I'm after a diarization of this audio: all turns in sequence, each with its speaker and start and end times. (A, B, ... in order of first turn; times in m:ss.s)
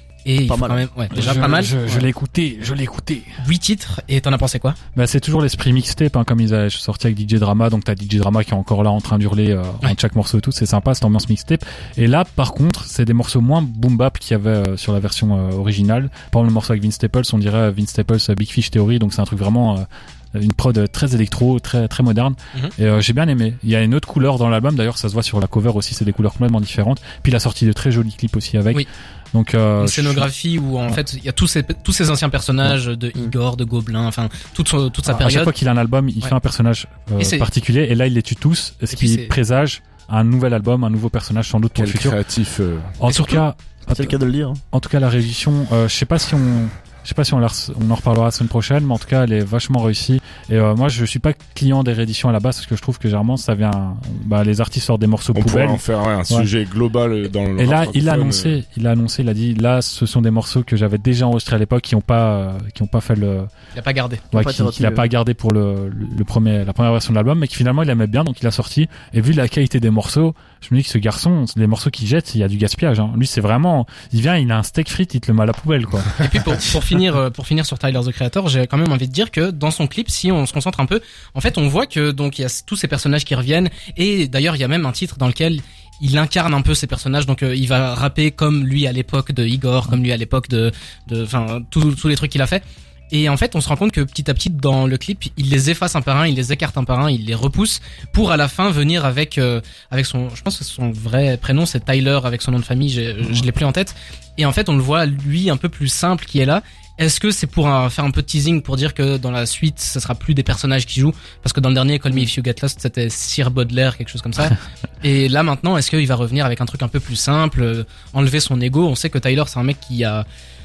0:00.2-0:02.1 A
0:00.5-0:00.9 B
0:01.1-0:03.3 C
0:03.4-0:04.8 A
0:05.0-0:30.3 C
0:29.8-0:35.5 A
0:35.1-0:42.2 C
0:37.2-0:37.5 A
0:38.9-0:39.4 A
0:41.8-0:42.9 D
0:43.0-0:44.2 C
0:43.1-0:43.4 A
0:43.9-0:44.6 B
0:44.7-0:56.5 C
0:55.4-0:58.6 D
0:57.6-1:03.5 C
1:03.7-1:04.2 A
1:04.3-1:16.2 C
1:04.3-1:05.1 B
1:16.2-2:00.2 A